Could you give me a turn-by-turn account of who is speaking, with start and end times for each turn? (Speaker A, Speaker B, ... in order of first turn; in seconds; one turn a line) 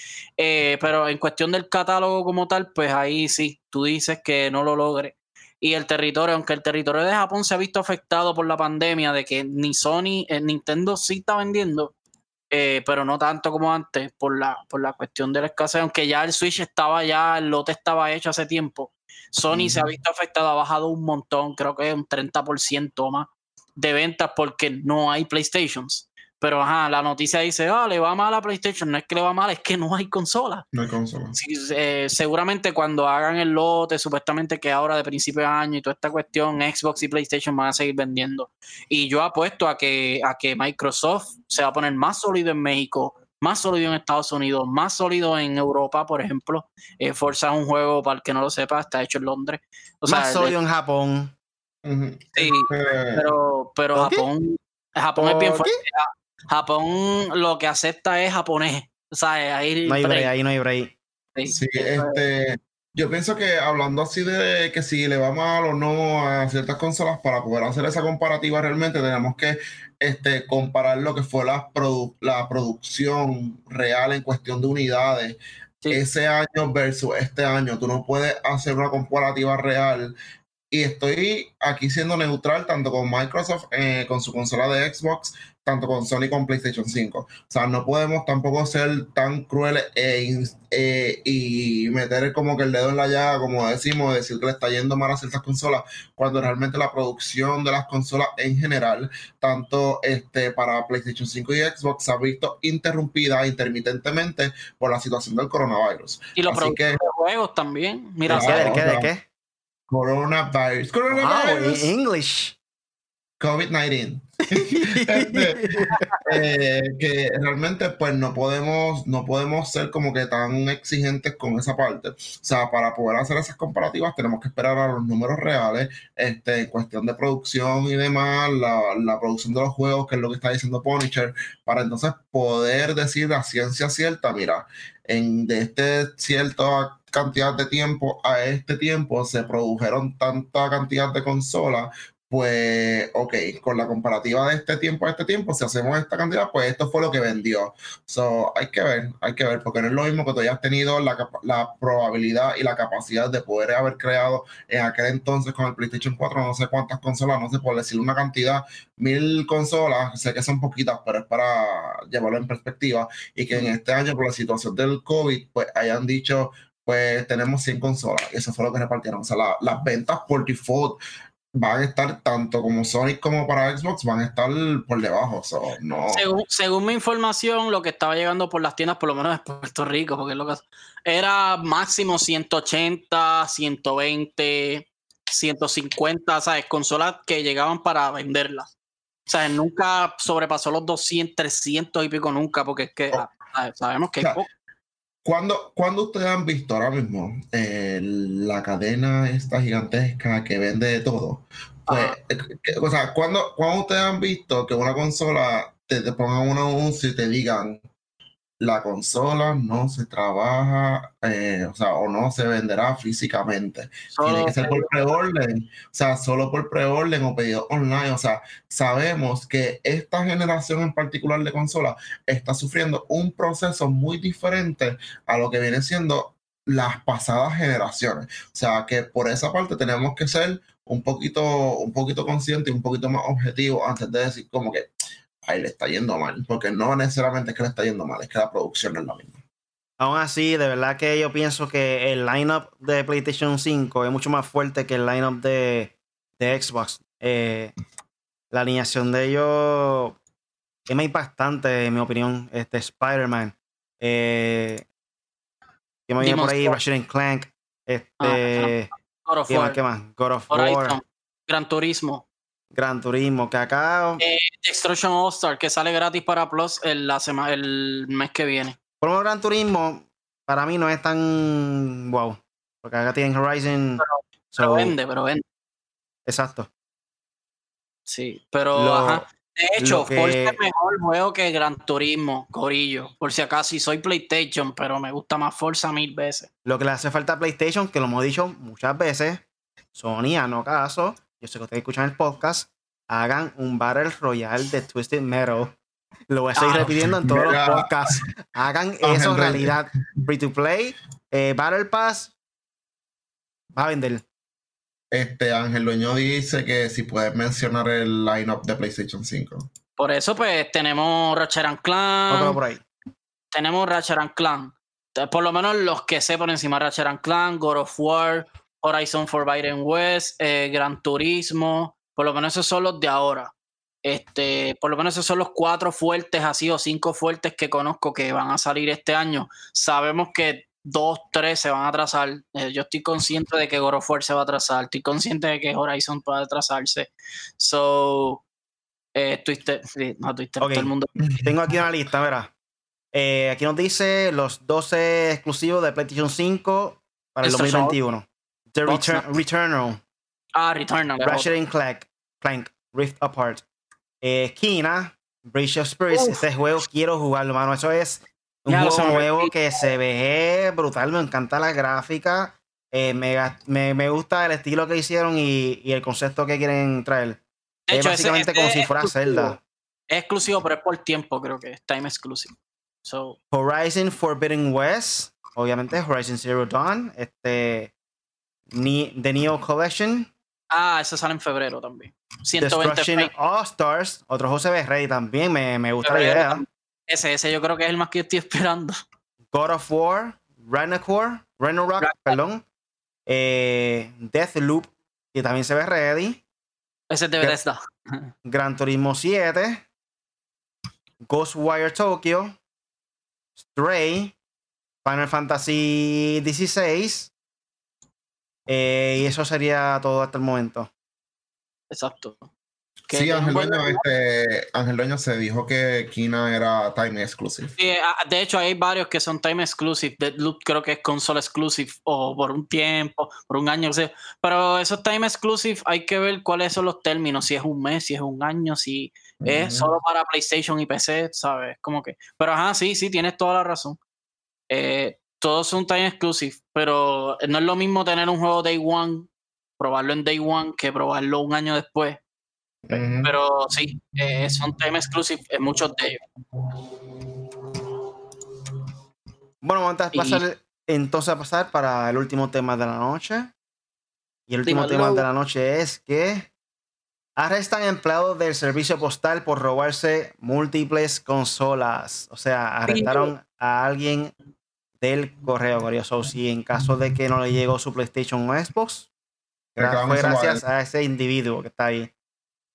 Speaker A: 0.4-11.9
Speaker A: 12.5-30.6
Speaker B: 19.5-19.9
Speaker B: 30.7-31.4
Speaker A: 31.4-50.5
Speaker C: 50.1-51.3
Speaker B: 51.9-53.4
Speaker A: 52.4-60.3
Speaker C: 54.0-54.3
Speaker C: 55.2-55.8
Speaker C: 59.9-61.0
Speaker A: 61.4-62.2
Speaker B: 61.5-80.2
Speaker B: 80.7-107.0
Speaker A: 106.4-108.8
Speaker B: 108.3-109.1
Speaker C: 108.4-109.2
Speaker B: 109.9-111.9
Speaker C: 111.1-112.6
Speaker B: 113.4-171.0
Speaker C: 114.5-116.0
Speaker A: 115.9-116.2
Speaker B: 171.6-176.3
Speaker A: 176.1-188.7
Speaker A: 189.3-194.5
Speaker B: 195.2-207.8
Speaker A: 201.9-202.2
Speaker B: 208.6-234.9
Speaker A: 214.1-215.0
Speaker B: 235.4-239.4
Speaker C: 240.0-247.7
Speaker C: 248.5-250.2
Speaker C: 250.9-254.8
Speaker C: 256.1-258.9
Speaker A: 256.2-256.8
Speaker A: 258.2-259.8
Speaker C: 259.5-261.0
Speaker A: 260.5-262.2
Speaker C: 262.7-264.2
Speaker A: 264.2-268.8
Speaker C: 269.0-274.9
Speaker A: 274.0-275.4
Speaker C: 276.3-276.7
Speaker A: 278.1-286.5
Speaker C: 278.7-279.2
Speaker C: 279.8-280.6
Speaker C: 286.6-289.4
Speaker C: 289.9-295.8
Speaker C: 296.3-302.3
Speaker A: 296.6-296.9
Speaker B: 296.8-298.2
Speaker B: 299.0-299.8
Speaker C: 303.8-304.2
Speaker B: 305.1-309.7
Speaker A: 310.0-312.6
Speaker C: 312.3-312.8
Speaker A: 313.5-323.5
Speaker A: 324.1-338.4
Speaker A: 339.1-341.1
Speaker C: 340.6-342.5
Speaker C: 343.1-350.0
Speaker A: 347.4-348.0
Speaker A: 348.9-349.2
Speaker A: 350.6-351.5
Speaker C: 351.2-353.6
Speaker C: 354.2-369.6
Speaker A: 356.1-356.4
Speaker A: 358.7-359.8
Speaker A: 367.9-369.6
Speaker A: 370.1-373.4
Speaker C: 373.5-377.9
Speaker C: 378.7-380.3
Speaker A: 380.7-383.3
Speaker C: 382.6-386.6
Speaker A: 386.0-389.0
Speaker C: 389.5-392.6
Speaker A: 392.0-392.4
Speaker C: 393.3-396.4
Speaker A: 397.1-398.3
Speaker C: 398.4-399.9
Speaker C: 401.2-402.6
Speaker C: 403.6-404.4
Speaker C: 405.0-407.3
Speaker C: 408.7-410.9
Speaker A: 411.9-412.5
Speaker A: 413.1-414.0
Speaker B: 413.1-417.8
Speaker A: 417.8-434.0
Speaker B: 429.4-429.9
Speaker A: 434.7-442.2
Speaker B: 442.9-443.4
Speaker A: 442.9-446.2
Speaker C: 449.6-453.5
Speaker A: 450.1-450.4
Speaker C: 454.5-456.5
Speaker A: 454.7-455.2
Speaker C: 457.4-464.3
Speaker A: 462.9-463.3
Speaker C: 465.0-469.1
Speaker B: 469.8-470.6
Speaker C: 469.8-472.1